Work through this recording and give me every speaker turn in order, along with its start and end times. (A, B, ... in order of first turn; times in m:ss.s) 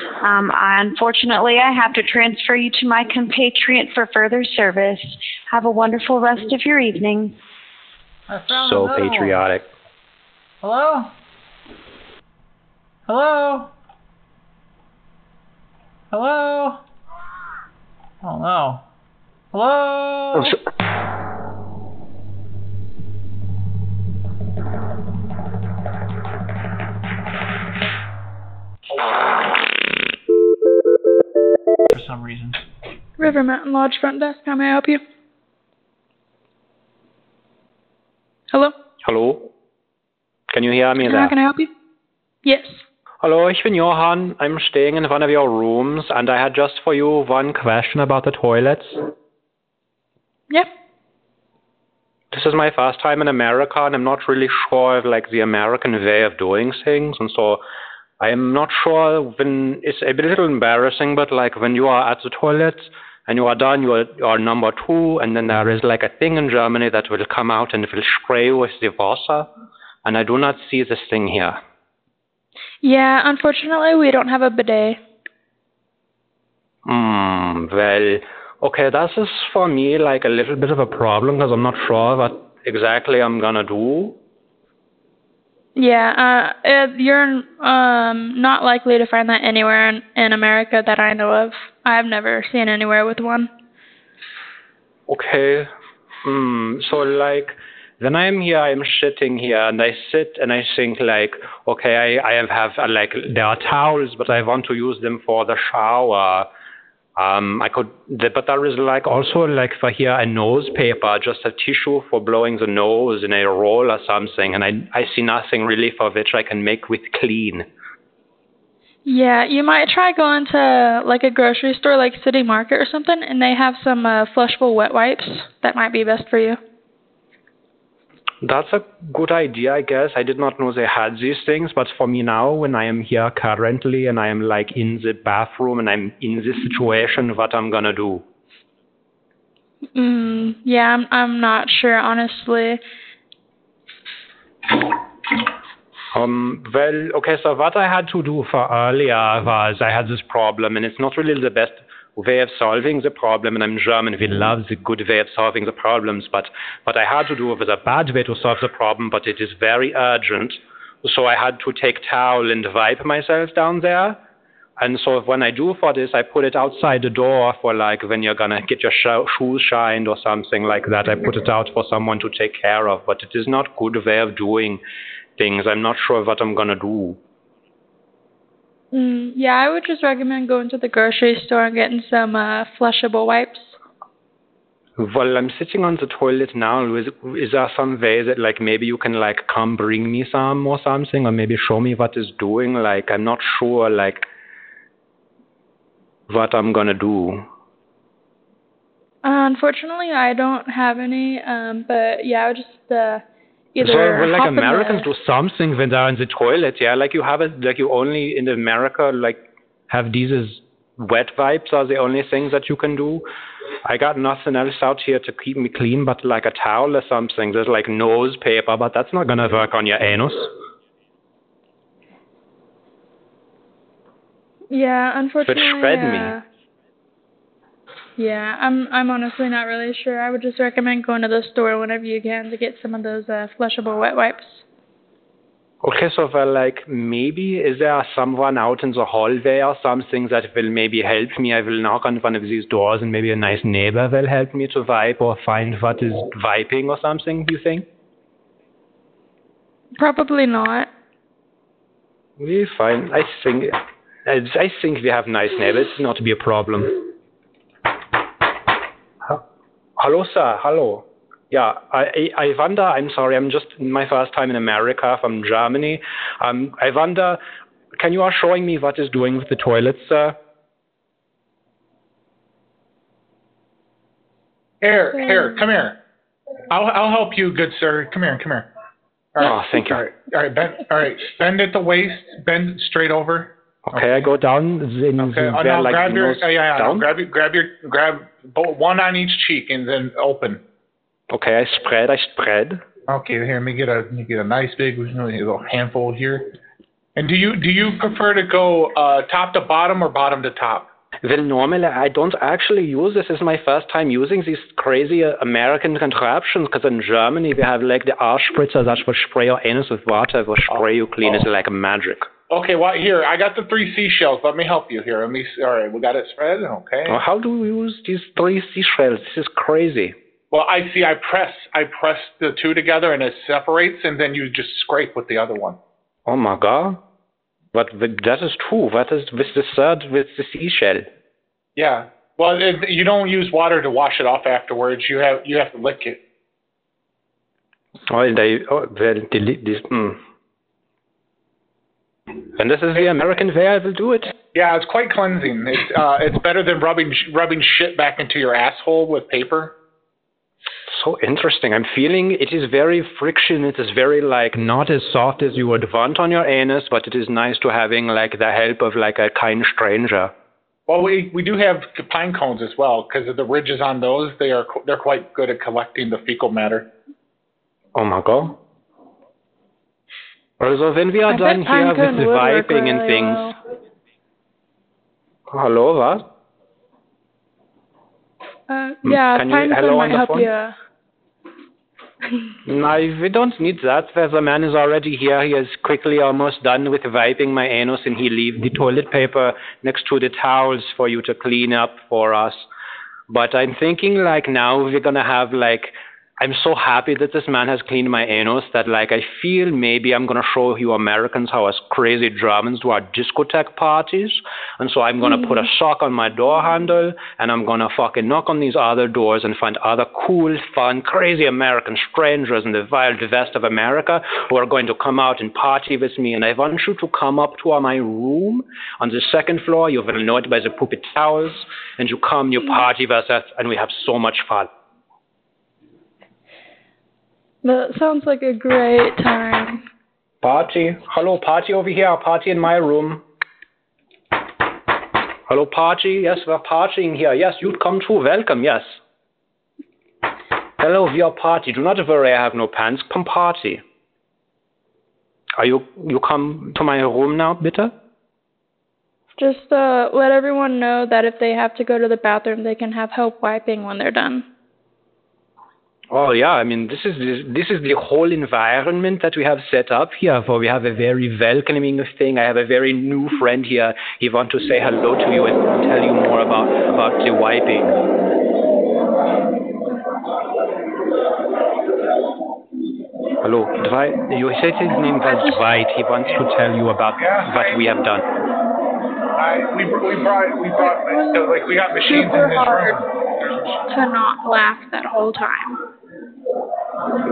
0:00.2-0:07.4 A
0:08.3-0:09.4 B
0:08.6-0:09.6 C
0:10.6-0:11.1 B
0:13.1-0:13.7 B
0:16.1-0:16.8 B
0:18.2-0:18.8 B
0:19.5-0:20.6 B
0:31.9-0:32.6 B
0:33.2-0:35.0 D
0:39.0-0:39.5 C
0:40.5-0:41.4 C
0:41.0-0:41.7 D
0:42.4-0:42.8 D
0:43.2-0:49.0 C
0:52.3-0:57.6 C
0:58.2-1:09.5 C
1:10.0-1:11.6 C
1:12.8-1:15.0 D
1:16.8-1:24.2 C
1:25.8-1:33.5 D
1:35.1-1:35.7 C
1:36.2-1:46.5 C
1:47.2-1:57.7 C
1:59.1-2:06.6 D
2:08.4-2:18.2 C
2:20.0-2:22.8 D
2:26.1-2:44.2 C
2:44.8-2:54.8 C
2:55.4-2:57.2 C
2:58.9-3:03.8 D
3:05.0-3:14.2 C
3:16.3-3:17.4 C
3:19.2-3:23.2 D
3:23.8-3:25.1 D
3:23.8-3:33.2 C
3:33.8-3:40.5 C
3:44.7-3:46.4 D
3:45.4-3:46.4 C
3:48.2-3:54.6 D
3:55.8-4:07.8 C
4:10.0-4:10.9 D
4:12.4-4:17.0 C
4:20.0-4:27.4 C
4:28.0-4:30.4 C
4:34.8-4:36.0 E
4:35.2-4:35.6 D
4:36.7-4:38.7 E
4:39.4-4:44.3 E
4:39.4-4:40.0 C
4:43.9-4:47.1 C
4:45.2-4:50.6 E
4:51.3-4:52.8 C
4:53.1-4:56.5 E
4:57.2-5:00.9 E
5:01.2-5:12.3 C
5:10.7-5:11.5 E
5:12.5-5:17.2 E
5:17.1-5:20.2 C
5:20.5-5:25.8 E
5:26.3-5:27.0 C
5:27.7-5:31.1 C
5:31.8-5:36.2 E
5:38.1-5:40.2 C
5:42.6-5:44.3 C
5:44.5-5:49.8 E
5:50.9-6:00.3 C
6:00.9-6:06.9 E
6:08.0-6:08.6 C
6:10.6-6:13.5 C
6:11.3-6:13.6 D
6:15.5-6:16.2 C
6:18.7-6:20.7 D
6:19.0-6:20.5 C
6:22.6-6:32.7 C
6:33.3-7:04.7 C
6:45.2-6:45.6 D
7:07.6-7:09.8 D
7:10.4-7:13.2 C
7:15.5-7:19.0 C
7:20.8-7:23.8 C
7:25.6-7:27.9 C
7:29.4-7:34.4 D
7:36.1-7:48.0 C
7:53.4-7:58.2 C
7:54.9-7:55.6 D
7:57.2-7:57.9 E
7:59.4-8:03.7 E
8:00.8-8:03.0 D
8:03.9-8:05.8 D